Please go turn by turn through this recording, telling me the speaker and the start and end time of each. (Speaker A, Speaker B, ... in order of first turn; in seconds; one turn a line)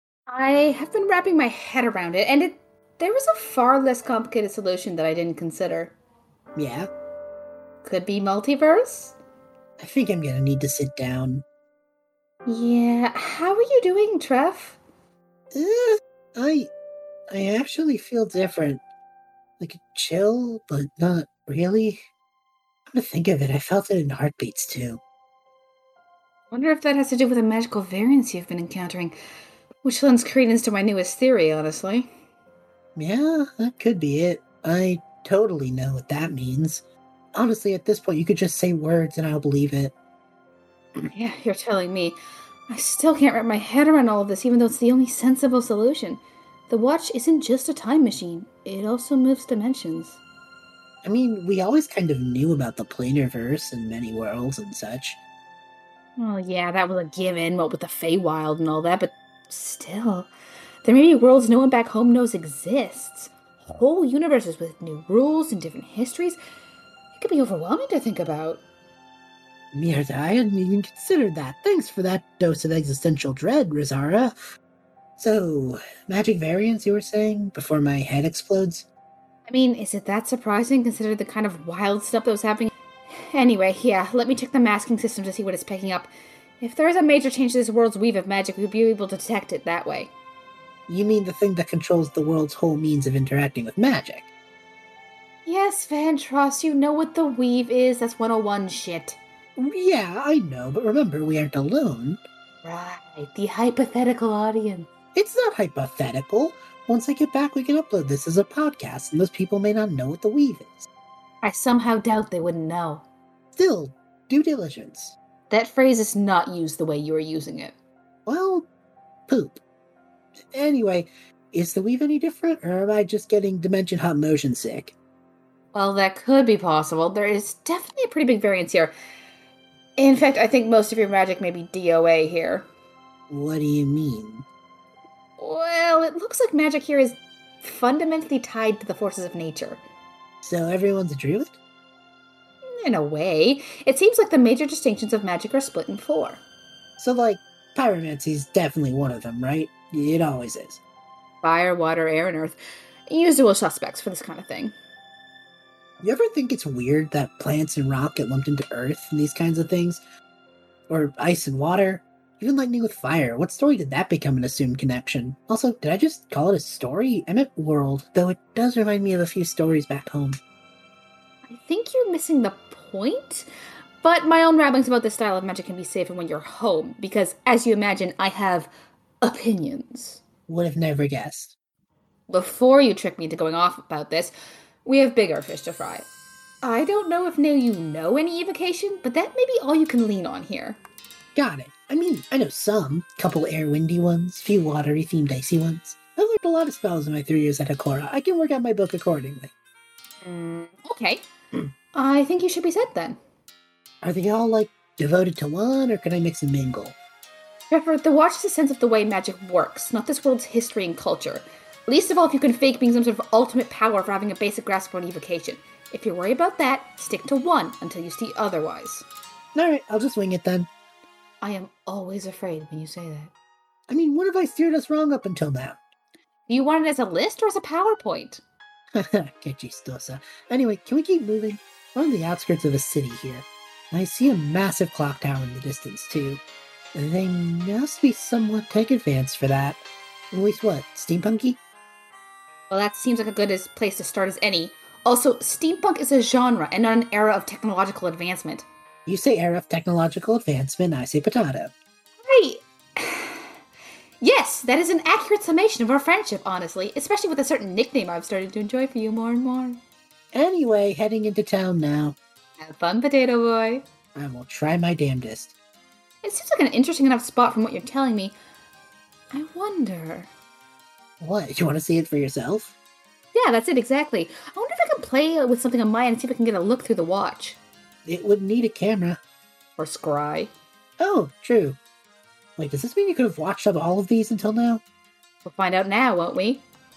Speaker A: 0.3-6.0
Speaker B: 6.5-6.9
Speaker A: 7.8-9.1
Speaker B: 9.8-11.4
Speaker A: 12.4-14.8
Speaker B: 15.5-16.7
Speaker B: 17.3-18.8
Speaker B: 19.6-22.0
Speaker B: 22.9-25.0
Speaker A: 26.5-29.2
Speaker A: 29.8-32.1
Speaker B: 33.0-36.8
Speaker B: 37.3-39.9
Speaker A: 41.0-42.2
Speaker A: 42.7-50.2
Speaker B: 51.0-55.2
Speaker A: 56.2-60.3
Speaker A: 60.8-66.4
Speaker A: 67.1-68.6
Speaker B: 69.7-74.3
Speaker B: 75.2-78.9
Speaker A: 79.5-90.1
Speaker B: 90.9-94.3
Speaker A: 95.5-99.2
Speaker B: 99.5-102.2
Speaker A: 102.6-104.9
Speaker B: 105.1-110.9
Speaker A: 111.4-113.0
Speaker B: 113.5-115.2
Speaker A: 115.5-117.7
Speaker B: 118.3-118.7
Speaker B: 119.3-119.6
Speaker B: 120.5-124.9
Speaker A: 125.7-128.9
Speaker A: 130.0-132.7
Speaker B: 133.3-134.4
Speaker A: 135.4-139.8
Speaker B: 140.4-141.6
Speaker A: 142.6-146.4
Speaker B: 147.0-150.8
Speaker A: 151.4-154.7
Speaker B: 156.0-160.0
Speaker B: 160.9-170.4
Speaker A: 171.5-173.5
Speaker A: 174.0-178.7
Speaker A: 179.2-180.2
Speaker B: 180.5-181.6
Speaker A: 182.3-184.3
Speaker A: 184.8-186.1
Speaker A: 186.6-190.8
Speaker B: 191.3-199.5
Speaker A: 200.2-201.3
Speaker A: 201.9-203.2
Speaker B: 204.0-206.9
Speaker A: 207.7-219.0
Speaker B: 219.5-220.7
Speaker A: 221.4-223.3
Speaker B: 223.9-225.8
Speaker A: 226.5-228.4
Speaker B: 228.9-236.4
Speaker B: 236.9-241.6
Speaker A: 242.7-248.7
Speaker B: 249.1-251.7
Speaker A: 252.2-253.5
Speaker A: 254.2-259.8
Speaker B: 260.3-262.2
Speaker A: 262.6-263.8
Speaker B: 264.1-265.5
Speaker A: 266.2-268.4
Speaker A: 269.3-270.3
Speaker B: 271.2-272.8
Speaker A: 273.3-277.6
Speaker B: 278.0-279.2
Speaker A: 279.8-280.5
Speaker B: 281.0-281.8
Speaker B: 282.6-284.8
Speaker A: 285.4-286.6